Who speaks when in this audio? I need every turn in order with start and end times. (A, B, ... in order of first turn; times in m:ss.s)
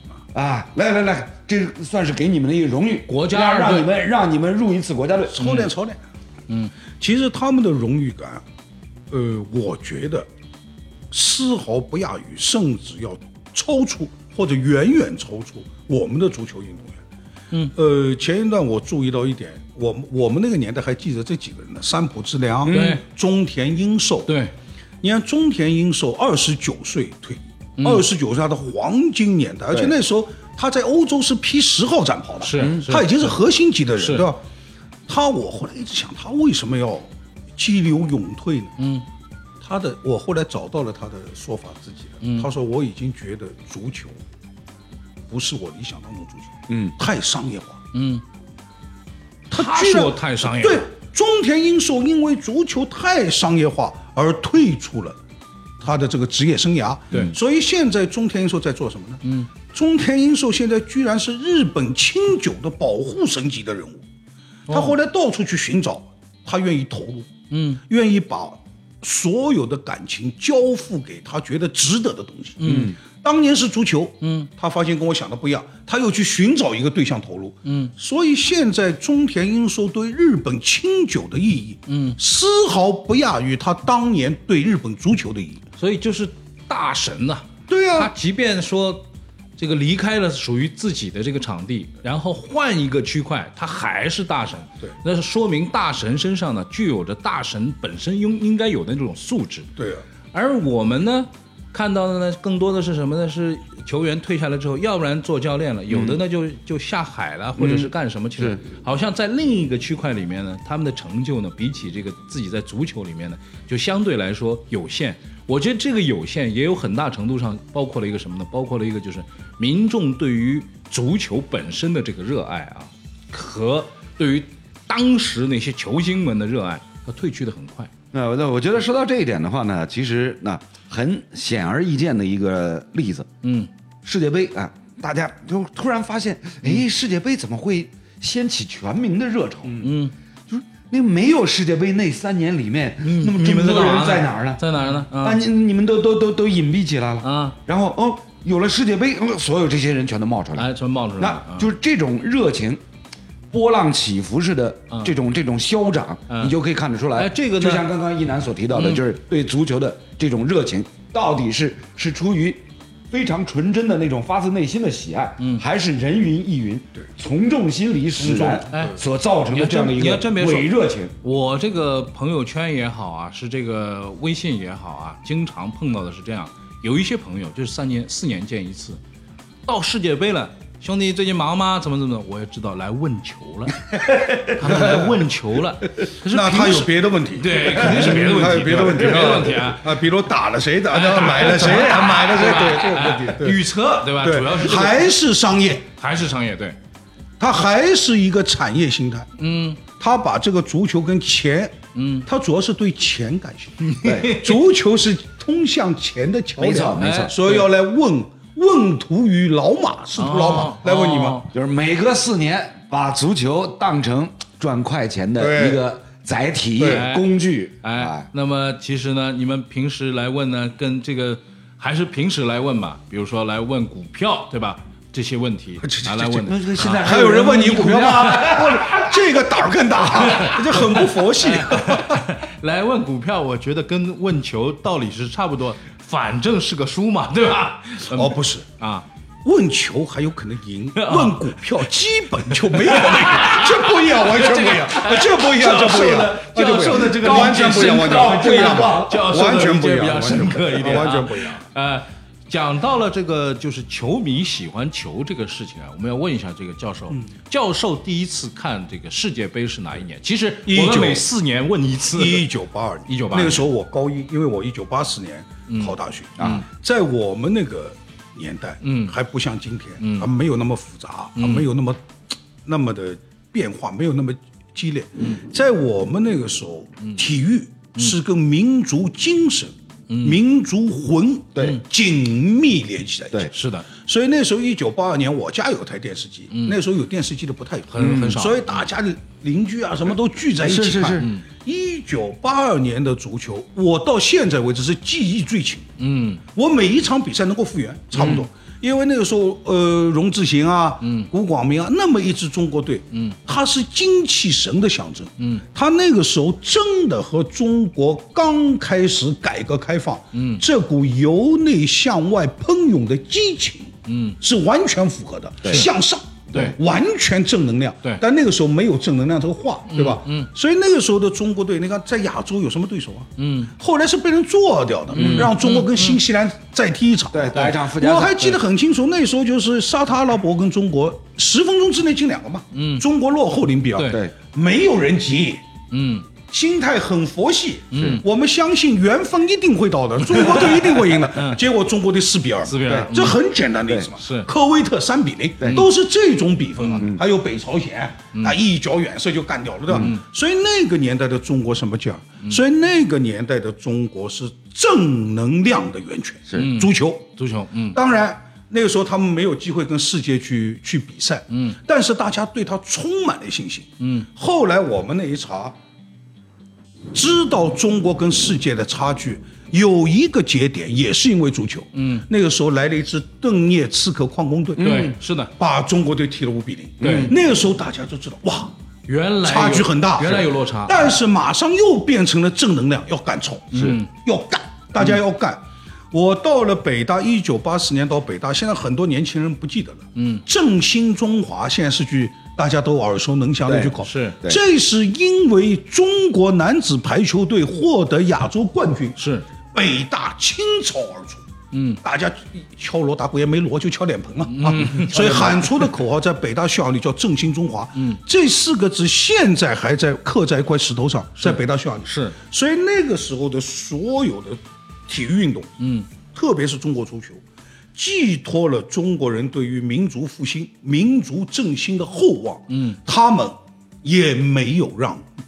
0:00.3-0:05.4 A
0:03.1-0:03.9 B
0:05.3-0:06.0 C
0:05.4-0:05.7 B
0:07.0-0:08.4 C
0:09.1-0:10.3 C
0:11.1-0:17.0 C
0:17.7-0:24.3 C
0:22.6-0:23.0 B
0:22.7-0:23.0 A
0:24.3-0:24.5 B
0:25.0-0:34.4 C
0:27.8-0:28.0 B
0:32.4-0:33.3 B
0:32.6-0:32.8 A
0:34.0-0:34.3 B
0:35.1-0:38.7 C
0:38.8-0:39.0 B
0:39.6-0:44.2 C
0:42.2-0:42.5 B
0:45.3-0:47.8 C
0:47.9-0:48.2 B
0:49.5-0:55.2 C
0:49.5-0:50.9 B
0:55.8-1:04.0 C
0:59.2-0:59.5 B
1:04.7-1:05.0 B
1:04.7-1:07.3 C
1:07.5-1:07.8 B
1:07.9-1:25.6 C
1:12.6-1:13.0 B
1:12.6-1:13.0 A
1:14.2-1:14.5 B
1:17.6-1:17.9 B
1:21.9-1:22.2 B
1:25.8-1:39.7 B
1:27.7-1:28.1 C
1:39.8-1:40.0 C
1:40.3-2:07.9 B
1:45.9-1:46.2 A
1:47.6-1:48.6 A
2:08.1-2:13.3 A
2:13.4-2:13.7 B
2:14.0-2:32.8 A
2:19.7-2:20.1 B
2:23.0-2:25.4 B
2:27.2-2:27.6 B
2:30.5-2:31.7 B
2:33.5-2:51.1 A
2:36.3-2:36.5 B
2:37.1-2:37.9 B
2:38.7-2:39.0 B
2:45.4-2:45.6 B
2:48.2-2:49.0 C
2:48.7-2:59.0 B
2:59.6-3:09.8 B
3:04.6-3:05.2 C
3:06.3-3:15.9 C
3:10.9-3:15.1 B
3:16.0-3:16.8 B
3:17.4-3:19.3 C
3:19.4-3:19.8 B
3:20.0-3:21.7 C
3:21.9-3:22.3 B
3:22.2-3:31.4 C
3:23.8-3:24.6 B
3:24.0-3:24.3 A
3:26.6-3:27.5 A
3:27.0-3:27.6 B
3:30.2-3:31.5 B
3:31.5-3:38.3 A
3:35.4-3:35.8 C
3:36.8-3:37.0 C
3:36.8-3:37.3 B
3:37.8-3:47.2 B
3:45.8-3:52.2 C
3:46.4-3:49.2 A
3:47.7-3:48.6 B
3:50.1-3:59.0 B
3:58.1-3:58.6 C
3:59.4-4:11.6 C
4:01.0-4:01.6 B
4:02.5-4:22.4 B
4:05.4-4:09.3 A
4:20.6-4:21.2 C
4:22.1-4:32.0 C
4:23.1-4:23.6 B
4:25.7-4:26.6 B
4:26.4-4:26.6 A
4:28.8-4:29.1 B
4:30.0-4:30.3 B
4:31.4-4:31.7 B
4:32.6-4:55.9 C
4:40.1-4:40.4 B
4:41.5-4:41.8 A
4:43.5-4:43.9 B
4:46.5-4:46.8 B
4:47.9-4:48.8 B
4:48.0-4:48.4 A
4:50.6-4:51.3 A
4:51.2-4:51.4 B
4:56.0-4:56.4 B
4:56.5-5:35.6 C
4:58.1-4:58.5 B
5:01.0-5:01.3 B
5:03.1-5:03.4 B
5:05.4-5:05.6 B
5:10.3-5:10.6 B
5:14.1-5:14.4 B
5:15.6-5:15.9 A
5:19.9-5:20.5 B
5:23.4-5:23.7 B
5:25.1-5:26.2 B
5:25.1-5:25.5 A
5:27.3-5:28.6 A
5:32.7-5:33.0 B
5:33.9-5:34.2 B
5:34.1-5:34.3 A
5:35.9-5:36.3 B
5:36.5-5:57.3 C
5:37.9-5:38.2 B
5:37.9-5:38.2 A
5:40.2-5:41.6 B
5:42.6-5:43.4 B
5:42.8-5:43.2 A
5:44.2-5:44.5 B
5:45.6-5:45.9 B
5:46.8-5:47.0 B
5:47.0-5:47.2 A
5:49.9-5:50.1 A
5:49.9-5:50.2 B
5:56.5-5:58.0 B
5:57.9-6:05.7 C
6:01.5-6:01.8 B
6:04.0-6:04.3 B
6:07.1-6:18.7 C
6:11.9-6:12.2 B
6:14.8-6:15.2 A
6:14.8-6:15.5 B
6:17.0-6:17.3 B
6:17.0-6:17.3 A
6:19.1-6:21.1 B
6:19.4-6:25.6 C
6:23.7-6:24.1 B
6:26.1-6:39.2 C
6:30.1-6:30.4 B
6:33.6-6:34.6 A
6:34.0-6:34.4 B
6:39.2-6:39.5 B
6:39.7-6:41.4 C
6:41.7-6:42.0 B
6:42.0-6:55.7 C
6:44.5-6:45.9 B
6:47.9-6:48.2 B
6:51.4-6:52.4 B
6:55.8-6:56.1 B
6:56.3-6:57.4 C
6:57.9-7:05.2 C
7:02.7-7:03.0 B